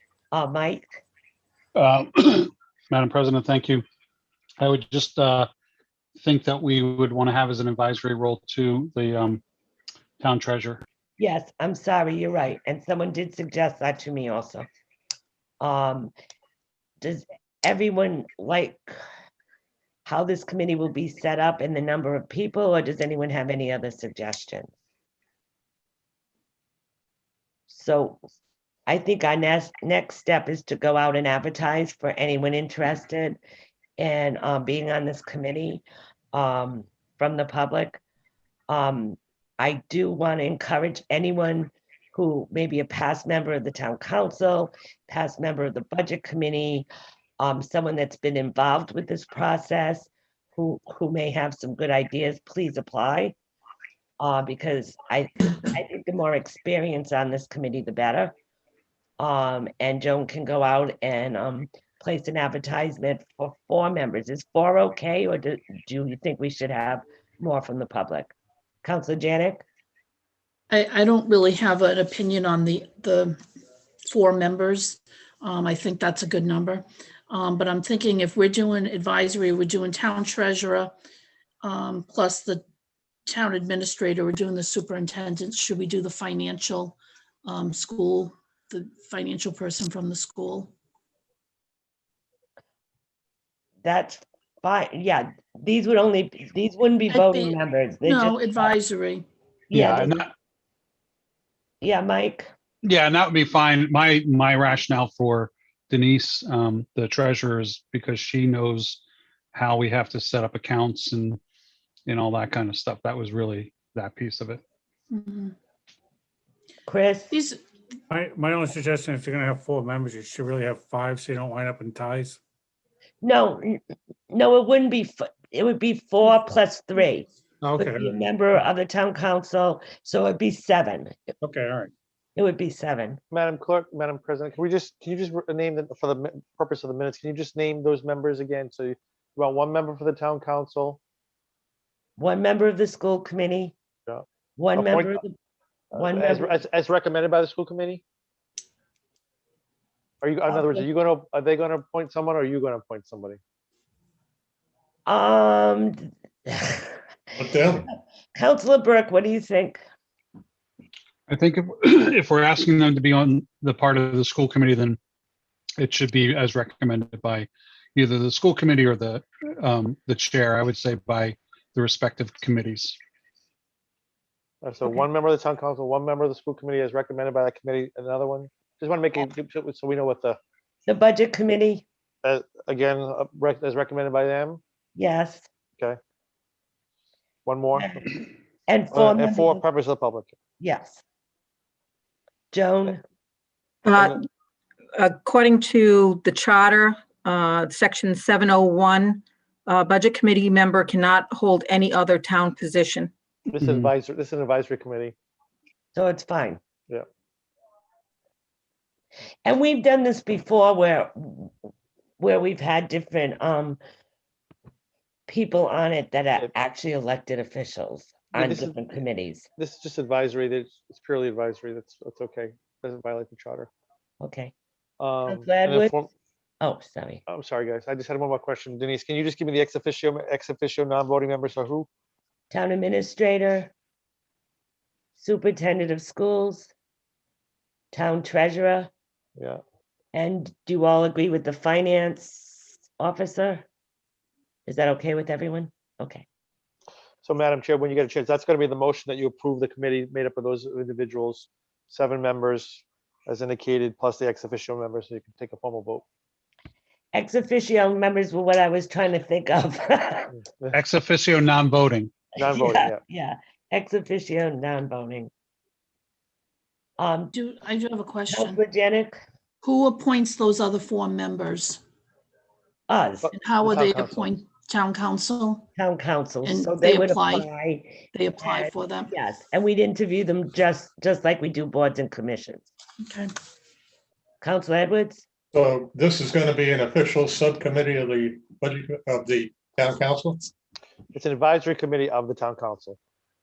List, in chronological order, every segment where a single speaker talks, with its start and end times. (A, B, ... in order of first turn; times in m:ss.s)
0:00.3-0:00.9 A
0:01.8-0:03.8 B
0:04.6-0:05.5 B
0:06.2-0:09.4 B
0:10.2-0:10.8 B
0:11.2-0:14.7 A
0:15.6-0:16.1 A
0:17.0-0:18.9 A
0:20.1-0:24.7 A
0:27.7-0:28.2 A
0:28.9-0:33.4 A
0:34.0-0:38.0 A
0:38.7-0:46.9 A
0:47.4-0:53.4 A
0:54.2-0:58.4 A
0:59.2-1:08.3 A
1:08.8-1:09.6 A
1:10.7-1:13.4 C
1:14.0-1:20.9 C
1:21.6-1:22.6 C
1:23.3-1:30.7 C
1:33.8-1:38.8 A
1:37.1-1:39.3 C
1:39.7-1:40.2 A
1:39.7-1:40.3 B
1:41.8-1:42.5 A
1:42.8-1:49.0 B
1:49.5-1:51.4 B
1:52.1-1:54.6 B
1:55.1-1:55.6 C
1:56.9-1:57.3 A
1:57.3-1:57.6 C
1:58.1-2:02.4 D
2:03.2-2:11.1 A
2:07.6-2:08.2 D
2:11.4-2:11.9 D
2:12.4-2:13.2 A
2:13.3-2:21.0 E
2:22.2-2:23.8 A
2:24.6-2:25.3 A
2:24.8-2:25.2 E
2:25.9-2:28.0 E
2:26.0-2:26.6 A
2:30.2-2:33.4 E
2:30.5-2:30.8 A
2:35.1-2:37.0 A
2:37.4-2:37.8 F
2:38.4-2:39.8 A
2:41.3-2:45.0 B
2:45.8-2:53.0 B
2:54.6-3:00.4 E
3:00.9-3:01.8 A
3:02.2-3:04.6 E
3:05.0-3:05.5 A
3:07.4-3:08.0 E
3:08.7-3:09.6 A
3:08.9-3:10.4 E
3:10.6-3:11.0 A
3:12.5-3:13.0 A
3:13.8-3:14.3 G
3:15.0-3:23.1 G
3:23.5-3:25.2 E
3:23.6-3:23.9 B
3:25.9-3:26.6 A
3:29.4-3:31.5 A
3:32.2-3:33.8 A
3:35.3-3:39.5 A
3:38.3-3:38.8 E
3:39.6-3:43.7 E
3:44.2-3:44.5 A
3:45.0-3:46.1 E
3:45.3-3:45.9 A
3:46.6-3:47.2 A
3:47.3-3:51.9 E
3:52.5-3:53.7 A
3:55.2-3:56.7 A
3:57.9-3:58.9 A
4:00.1-4:03.7 A
4:04.7-4:06.2 A
4:07.2-4:16.0 E
4:17.1-4:20.3 A
4:20.7-4:22.1 B
4:22.4-4:23.0 E
4:22.4-4:25.3 A
4:27.0-4:27.3 A
4:27.3-4:28.6 C
4:28.3-4:29.2 A
4:29.6-4:31.8 C
4:32.9-4:33.3 A
4:33.2-4:34.3 E
4:33.3-4:35.7 C
4:35.8-4:42.7 A
4:36.4-4:37.5 C
4:38.1-4:39.1 C
4:43.0-4:43.3 C
4:44.4-4:45.2 A
4:45.5-4:50.5 F
4:51.1-4:53.0 E